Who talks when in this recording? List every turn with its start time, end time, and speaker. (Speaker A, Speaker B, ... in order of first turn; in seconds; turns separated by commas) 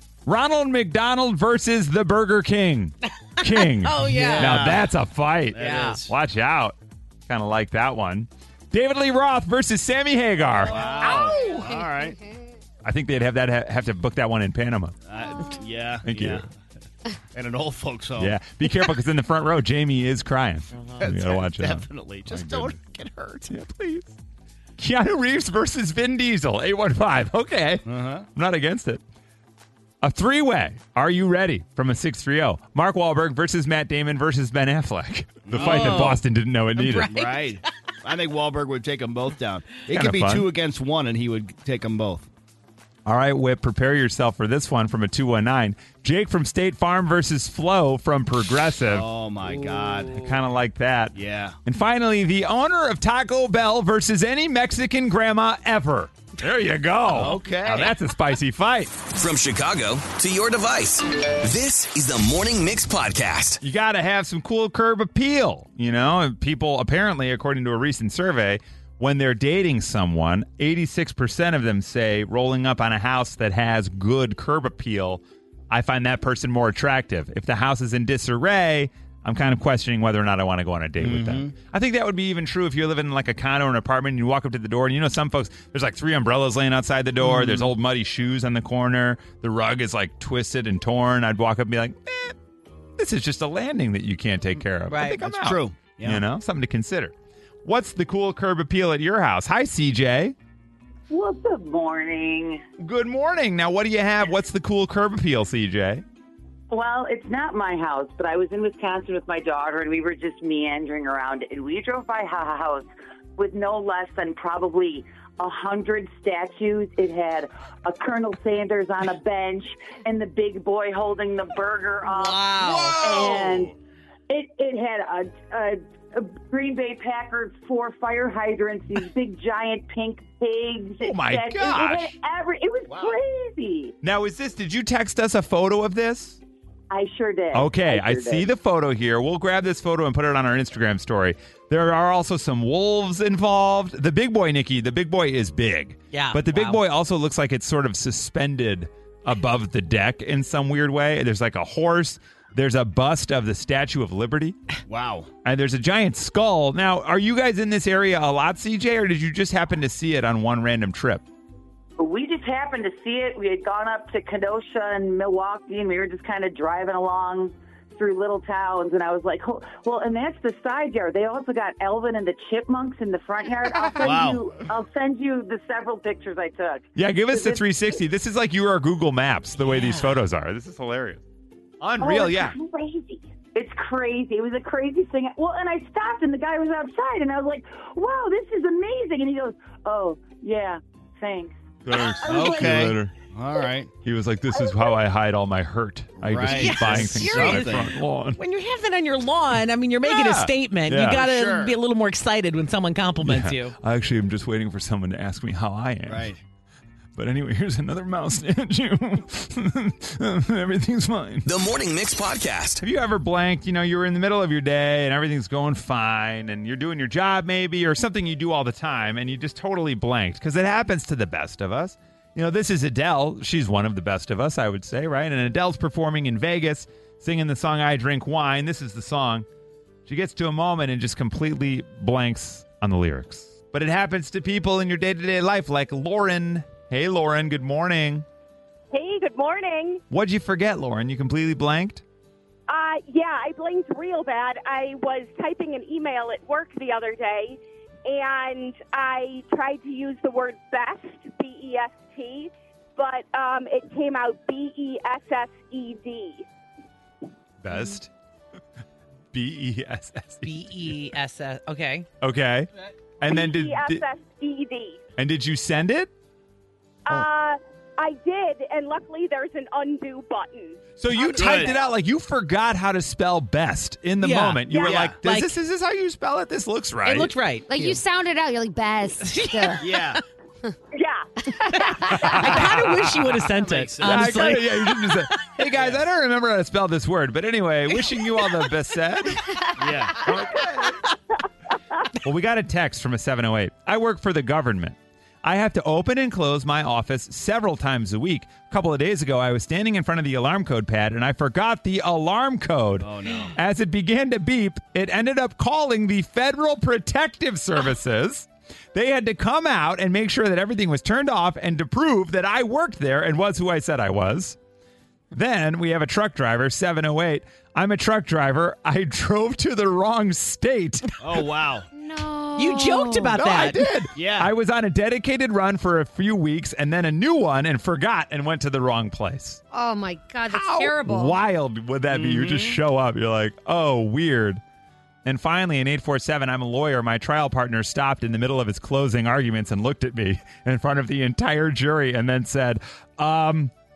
Speaker A: 0.2-6.7, Speaker B: 3.5-4.8, Speaker C: 4.0-4.9, Speaker C: 5.5-6.1, Speaker B: 5.5-6.0, Speaker A: 7.3-10.8, Speaker C: 10.6-12.2, Speaker D: 11.0-12.3, Speaker A: 12.8-14.9, Speaker C: 15.1-16.5, Speaker A: 16.1-16.4, Speaker C: 17.3-18.3, Speaker A: 18.2-22.8, Speaker B: 20.7-21.0, Speaker C: 21.0-23.5, Speaker A: 23.5-24.1, Speaker A: 24.8-29.0, Speaker C: 27.9-28.3, Speaker A: 30.0-37.1, Speaker C: 35.4-36.2, Speaker B: 35.5-36.2, Speaker B: 36.8-37.6, Speaker C: 37.1-42.3, Speaker A: 39.9-40.5, Speaker A: 43.0-49.1, Speaker C: 48.9-50.2, Speaker A: 50.1-58.9, Speaker C: 51.1-51.5, Speaker C: 57.1-57.9, Speaker E: 59.1-63.6, Speaker A: 63.6-92.3, Speaker C: 81.0-81.5, Speaker A: 93.0-97.1, Speaker B: 94.9-95.2, Speaker C: 95.2-96.2, Speaker A: 97.6-100.3, Speaker F: 101.1-102.6, Speaker A: 102.8-106.0, Speaker F: 106.7-123.7, Speaker B: 122.0-123.3, Speaker A: 122.6-123.7, Speaker F: 124.3-133.9, Speaker A: 131.0-132.1, Speaker C: 132.9-133.2, Speaker A: 134.0-136.4, Speaker F: 136.9-138.5, Speaker A: 137.5-154.6, Speaker B: 146.1-146.8, Speaker C: 154.9-155.3, Speaker A: 155.4-161.2, Speaker F: 162.0-177.6, Speaker C: 174.0-174.4, Speaker A: 176.9-181.2, Speaker B: 179.6-180.2, Speaker A: 181.8-182.6, Speaker F: 182.0-192.9, Speaker A: 191.8-193.1, Speaker C: 192.2-193.9, Speaker A: 194.0-198.4, Speaker C: 196.2-197.9, Speaker B: 196.5-203.8, Speaker A: 200.1-201.2, Speaker C: 201.1-201.8, Speaker A: 203.2-206.3, Speaker C: 206.1-206.4, Speaker A: 207.2-211.5, Speaker E: 211.4-212.8, Speaker A: 212.8-229.4, Speaker A: 230.1-238.2, Speaker G: 238.9-240.0, Speaker A: 240.1-242.0, Speaker G: 242.7-256.4, Speaker A: 257.6-258.1, Speaker A: 259.3-261.0, Speaker B: 260.4-262.1, Speaker A: 262.2-264.0, Speaker G: 263.2-265.0, Speaker A: 265.2-266.1, Speaker G: 267.1-271.9, Speaker A: 271.0-277.3, Speaker C: 271.3-271.7, Speaker B: 274.2-275.5, Speaker C: 274.7-275.2, Speaker B: 277.0-278.0, Speaker D: 277.7-279.8, Speaker B: 279.2-280.0, Speaker C: 279.8-280.2, Speaker G: 280.9-281.3, Speaker D: 281.5-282.2, Speaker B: 281.7-285.4, Speaker A: 282.1-283.1, Speaker C: 283.5-284.6, Speaker A: 284.0-289.5, Speaker C: 285.7-286.0, Speaker C: 289.8-290.2, Speaker A: 290.2-291.0, Speaker A: 292.2-314.6, Speaker C: 303.0-303.5, Speaker A: 315.3-321.2, Speaker C: 321.2-321.9, Speaker D: 321.9-323.4, Speaker B: 322.6-323.8, Speaker A: 323.3-329.6, Speaker C: 324.1-324.5, Speaker D: 329.7-331.4, Speaker A: 330.5-334.6, Speaker C: 332.1-332.8, Speaker A: 335.2-343.7